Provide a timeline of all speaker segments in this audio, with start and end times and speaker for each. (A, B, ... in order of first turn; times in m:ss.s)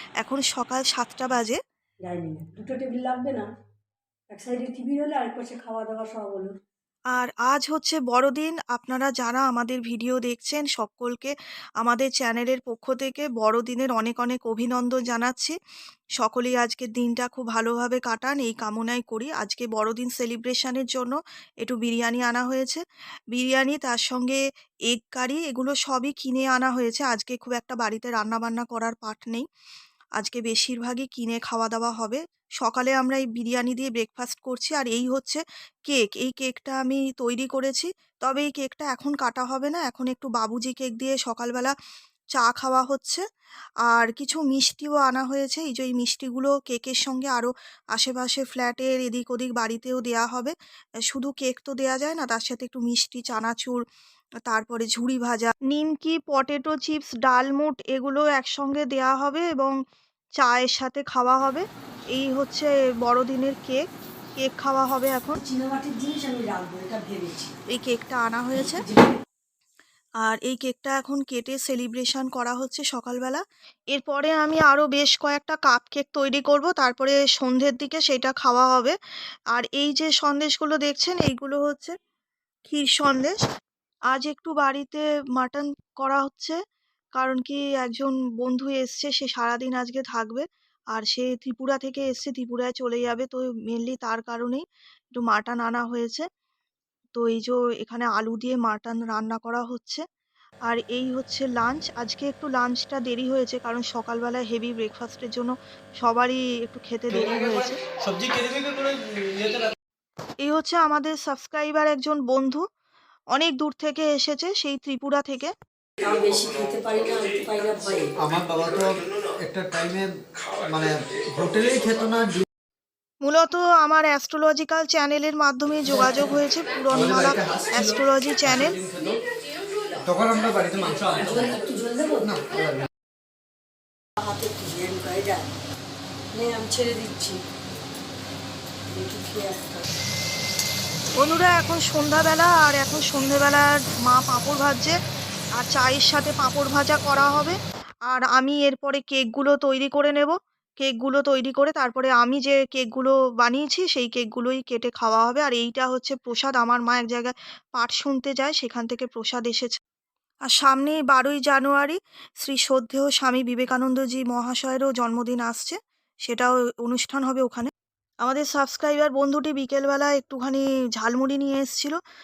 0:00.2-0:01.6 A
0:02.1-0:03.5 B
0:04.3-0:06.5 B
0:07.2-0:15.6 A
0:16.2-0:22.8 A
0:23.3-0:29.5 A
0:30.2-0:41.7 A
0:42.4-0:43.2 A
0:43.9-0:50.5 A
0:51.1-0:53.8 A
0:54.5-0:59.7 A
1:00.4-1:03.8 A
1:04.4-1:05.4 A
1:05.4-1:07.5 B
1:07.7-1:08.8 A
1:08.6-1:09.2 B
1:10.2-1:19.0 A
1:19.5-1:22.0 A
1:22.7-1:23.4 A
1:24.1-1:26.6 A
1:27.2-1:34.6 A
1:35.2-1:36.2 A
1:37.2-1:40.0 A
1:40.7-1:47.8 A
1:48.0-1:49.7 C
1:50.4-1:52.6 A
1:53.4-1:55.5 A
1:56.0-1:58.1 B
1:58.2-2:00.2 C
2:00.7-2:02.4 C
2:03.2-2:08.8 A
2:07.0-2:07.8 C
2:08.8-2:09.2 C
2:10.0-2:11.5 C
2:10.8-2:12.4 B
2:12.2-2:12.9 C
2:14.2-2:15.5 B
2:16.3-2:17.4 B
2:18.9-2:19.8 B
2:21.2-2:25.0 A
2:25.6-2:39.7 A
2:40.5-2:47.7 A
2:48.2-2:52.0 A